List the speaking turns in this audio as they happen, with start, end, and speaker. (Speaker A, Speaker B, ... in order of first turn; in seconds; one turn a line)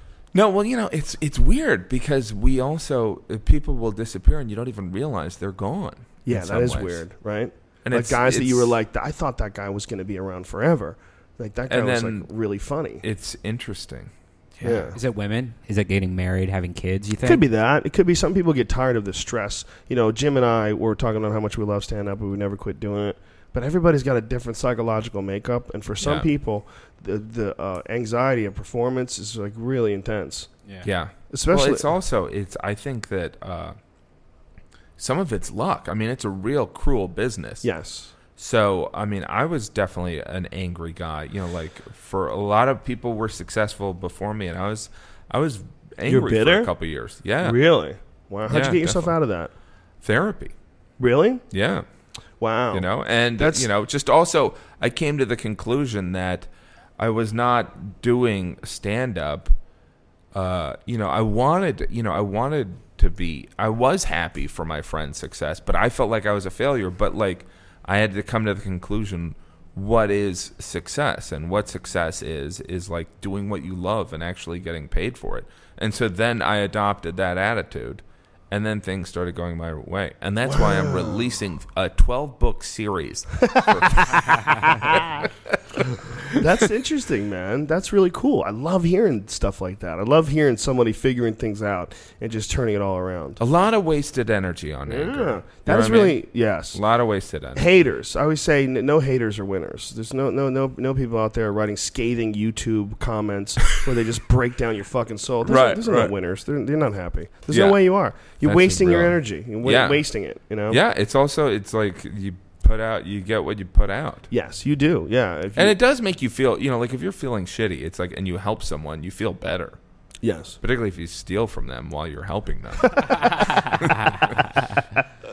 Speaker A: 0.3-7.0
Speaker B: 6.3-13.0
Speaker A: 7.8-8.7
Speaker A: 11.7-12.3
Speaker A: 13.0-14.9
Speaker B: 14.6-15.0
Speaker C: 14.9-17.4
Speaker B: 17.2-30.5
Speaker A: 26.0-26.3
Speaker A: 30.8-33.8
Speaker B: 31.3-31.9
Speaker A: 35.0-37.7
Speaker B: 37.6-38.1
Speaker A: 38.4-47.6
Speaker B: 46.1-46.7
Speaker B: 47.4-49.5
Speaker A: 48.5-49.2
Speaker A: 50.0-50.5
Speaker B: 51.0-51.4
Speaker A: 51.5-51.9
Speaker B: 52.4-52.9
Speaker A: 52.7-59.5
Speaker B: 53.4-53.7
Speaker A: 60.3-85.2
Speaker B: 80.5-81.3
Speaker B: 83.5-85.3
Speaker B: 86.3-93.4
Speaker A: 93.4-97.7
Speaker B: 94.9-96.8
Speaker B: 97.5-110.8
Speaker A: 105.5-106.1
Speaker A: 107.5-110.0
Speaker A: 110.7-114.3
Speaker B: 114.3-115.8
Speaker A: 115.6-119.8
Speaker B: 120.2-120.6
Speaker A: 120.6-124.5